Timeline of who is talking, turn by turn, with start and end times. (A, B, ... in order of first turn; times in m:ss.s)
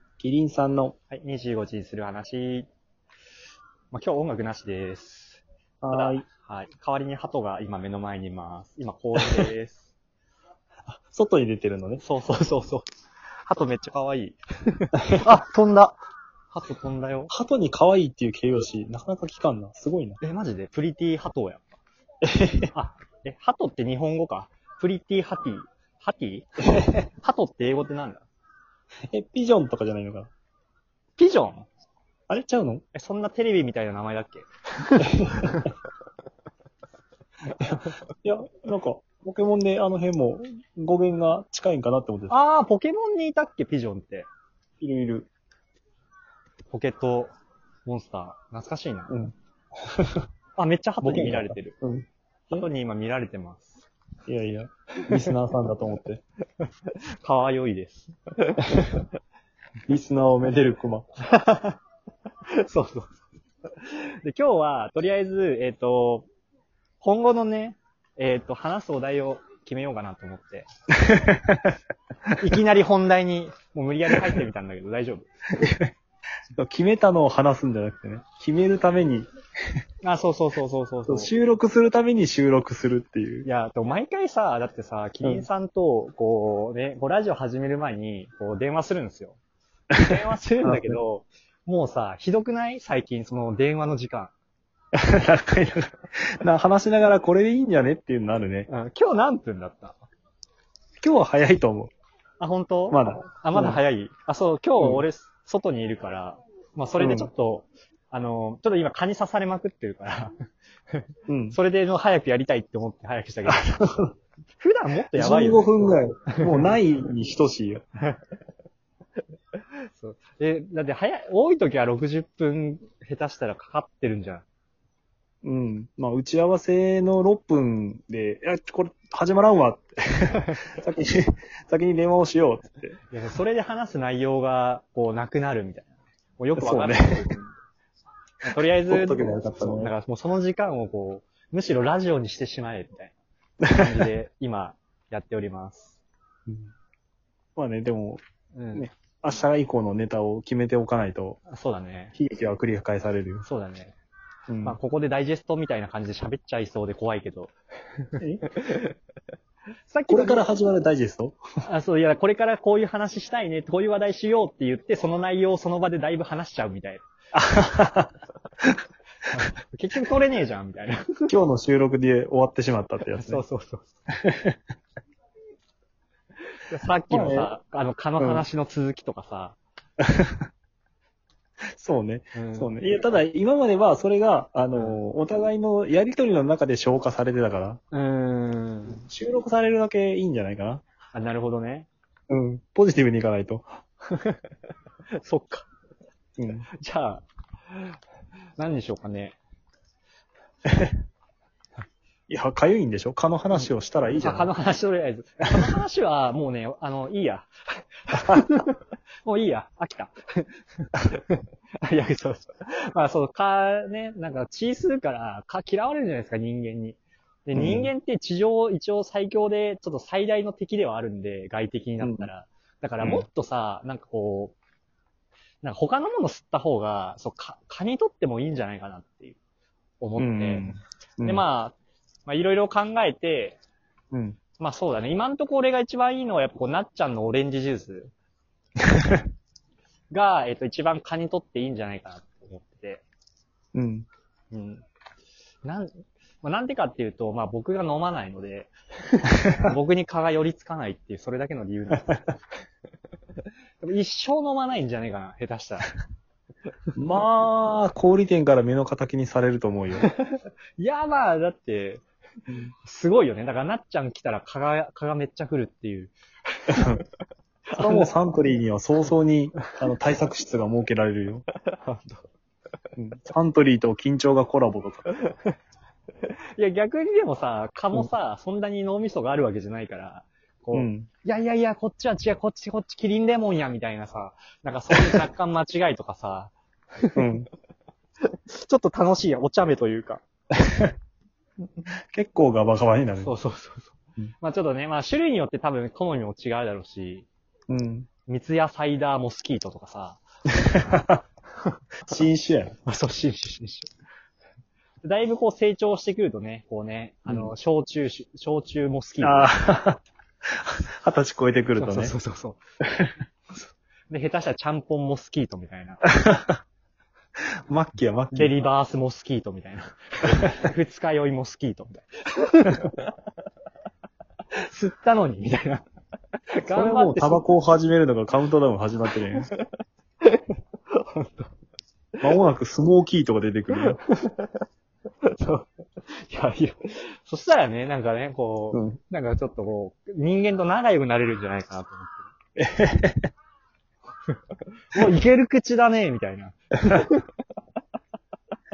0:00.2-0:01.0 A
0:01.1-0:02.7 B
0:03.9-0:09.9 B
0:05.8-0:06.2 A
0:09.2-0:09.5 A
0:10.9-0:12.0 A
0:12.0-0:12.8 B
0:13.5-0:16.0 B
0:15.0-0:15.3 A
0:16.5-0:17.3 B
0:17.3-0:20.2 A
0:20.2-0:21.6 B
0:22.2-0:22.7 A
0:22.7-0:28.3 B
0:26.7-0:27.0 A
0:29.1-0:30.3 A
0:31.2-0:31.7 B
0:32.3-0:32.8 A
0:32.9-0:35.7 B
0:35.0-0:35.7 A
0:37.6-0:42.4 A
0:42.3-0:44.3 B
0:44.8-0:45.3 A
0:46.7-0:47.3 B
0:47.8-0:49.1 B
0:49.1-0:50.2 A
0:50.6-0:51.8 B
0:51.0-0:52.7 A
0:52.5-0:53.9 B
0:54.3-0:56.2 A
0:55.0-0:55.3 B
0:56.6-0:58.8 B
0:58.7-0:59.0 A
0:59.9-1:01.1 A
1:01.2-1:01.8 B
1:02.5-1:03.1 B
1:03.7-1:06.3 B
1:07.0-1:10.7 B
1:11.0-1:11.8 A
1:12.4-1:15.3 B
1:15.6-1:15.9 A
1:16.6-1:19.3 A
1:20.0-1:21.3 B
1:21.1-1:23.5 A
1:23.4-1:29.4 B
1:29.9-1:31.0 A
1:30.0-1:34.3 B
1:35.0-1:38.7 A
1:38.7-1:40.0 B
1:41.0-1:41.9 A
1:42.4-1:50.3 B
1:42.9-1:43.8 A
1:44.8-1:45.0 A
1:47.0-1:47.3 A
1:50.9-1:53.7 B
1:51.3-1:51.6 A
1:53.5-1:54.1 A
1:54.6-1:56.7 B
1:55.1-1:57.8 A
1:59.8-2:04.4 B
2:05.4-2:13.0 A
2:13.1-2:17.6 B
2:16.6-2:17.3 A
2:18.4-2:23.2 B
2:18.9-2:19.9 A
2:23.6-2:24.1 A
2:23.7-2:26.0 B
2:26.5-2:26.7 A
2:27.6-2:28.2 A
2:28.5-2:28.9 B
2:28.7-2:31.4 A
2:31.5-2:32.2 B
2:32.2-2:33.4 A
2:33.4-2:34.0 B
2:34.5-2:34.8 A
2:34.6-2:38.9 B
2:38.2-2:38.5 A
2:39.9-2:40.5 B
2:40.1-2:41.4 A
2:41.6-2:47.0 B
2:47.3-2:48.8 A
2:49.3-2:51.3 B
2:51.3-2:53.4 A
2:53.2-2:53.9 B
2:54.2-2:54.6 A
2:56.7-2:59.6 B
2:57.1-2:57.5 A
2:58.2-2:58.4 A
3:00.0-3:00.5 A
3:01.7-3:07.8 A
3:02.3-3:02.7 B
3:07.9-3:09.1 B
3:09.0-3:10.8 A
3:11.1-3:11.9 B
3:12.3-3:13.7 A
3:14.1-3:14.5 B
3:15.2-3:15.7 B
3:16.4-3:16.7 A
3:16.8-3:18.0 B
3:18.6-3:19.4 B
3:20.7-3:21.0 A
3:22.3-3:24.5 A
3:23.5-3:44.6 B
3:37.5-3:37.9 A
3:42.0-3:42.3 A
3:43.0-3:43.3 A
3:45.6-3:49.4 B
3:50.0-3:50.7 B
3:50.2-3:51.4 A
3:51.2-3:51.8 B
3:52.3-3:53.6 B
3:54.1-3:54.4 A
3:54.6-3:58.1 B
3:58.9-3:59.2 A
4:00.1-4:03.0 B
4:03.7-4:04.1 A
4:04.5-4:04.8 B
4:05.6-4:12.3 B
4:09.4-4:09.7 A
4:13.8-4:15.9 B
4:17.0-4:20.1 A
4:20.0-4:22.0 B
4:22.5-4:22.7 A
4:22.8-4:26.9 B
4:26.8-4:27.0 A
4:27.7-4:28.1 B
4:27.8-4:31.4 A
4:31.7-4:32.3 B
4:33.0-4:35.1 A
4:35.2-4:35.6 B
4:36.6-4:47.3 B
4:40.7-4:41.1 A
4:44.9-4:45.2 A
4:47.2-4:47.5 A
4:48.3-4:50.2 B
4:50.5-4:50.9 A
4:52.1-4:53.3 A
4:53.2-4:57.3 B
4:57.7-4:58.1 A
4:58.3-5:00.7 B
5:00.6-5:01.2 A
5:02.1-5:02.8 A
5:02.8-5:03.9 B
5:05.0-5:09.4 B
5:07.3-5:07.5 A
5:09.2-5:12.2 A
5:11.8-5:12.6 B
5:12.8-5:13.1 A
5:13.5-5:16.0 B
5:16.0-5:16.6 A
5:17.7-5:18.6 A
5:18.3-5:23.0 B
5:24.6-5:25.8 B
5:26.5-5:27.4 B
5:26.7-5:29.5 A
5:29.4-5:29.6 B
5:30.2-5:31.5 B
5:32.2-5:34.0 A
5:33.8-5:34.6 B
5:35.2-5:42.3 B
5:38.7-5:39.0 A
5:42.6-5:43.3 A
5:44.9-5:47.2 B